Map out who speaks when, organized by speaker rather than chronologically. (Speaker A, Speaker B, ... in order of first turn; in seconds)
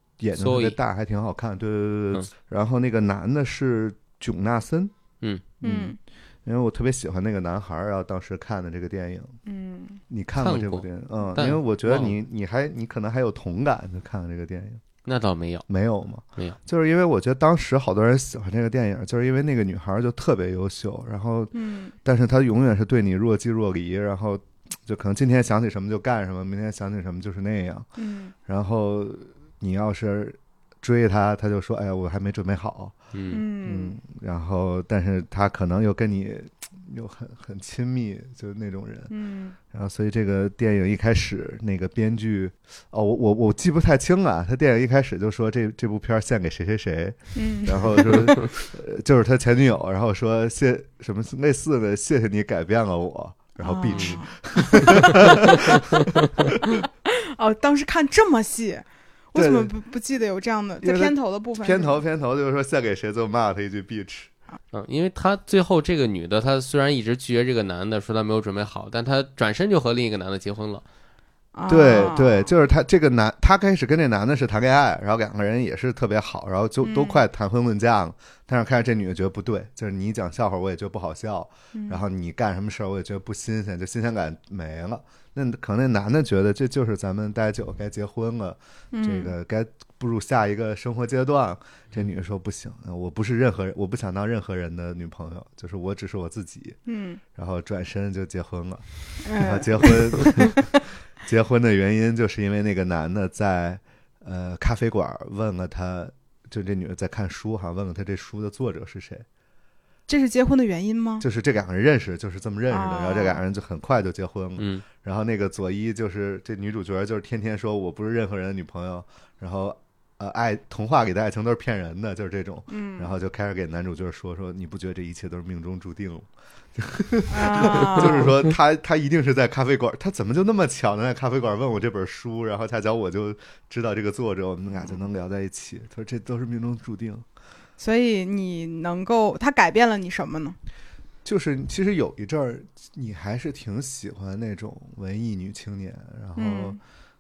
Speaker A: 0.2-4.9, 5.6-9.4, 10.1-14.8, 15.7-21.5, 22.0-27.9, 28.4-33.0, 33.6-39.1, 39.7-56.8, 59.4-59.7, 60.8-64.3, 71.7-96.8, 97.3-109.3, 111.2-137.2, 141.2-146.8
Speaker B: 0.3-0.8, 10.4-12.2, 15.1-15.7, 33.1-33.4, 54.9-55.2, 64.7-70.8, 114.6-114.9
Speaker C: 5.6-6.0, 9.5-10.0, 21.5-21.9, 28.0-28.3, 33.3-34.0, 39.1-39.6, 47.4-48.2, 53.6-55.3, 56.8-62.0, 71.5-72.5, 76.8-77.2, 81.7-82.0, 88.9-89.3, 96.9-97.2, 99.2-100.5, 110.1-111.2, 112.7-113.4, 122.7-123.1, 127.3-128.3, 137.8-140.6, 146.4-146.8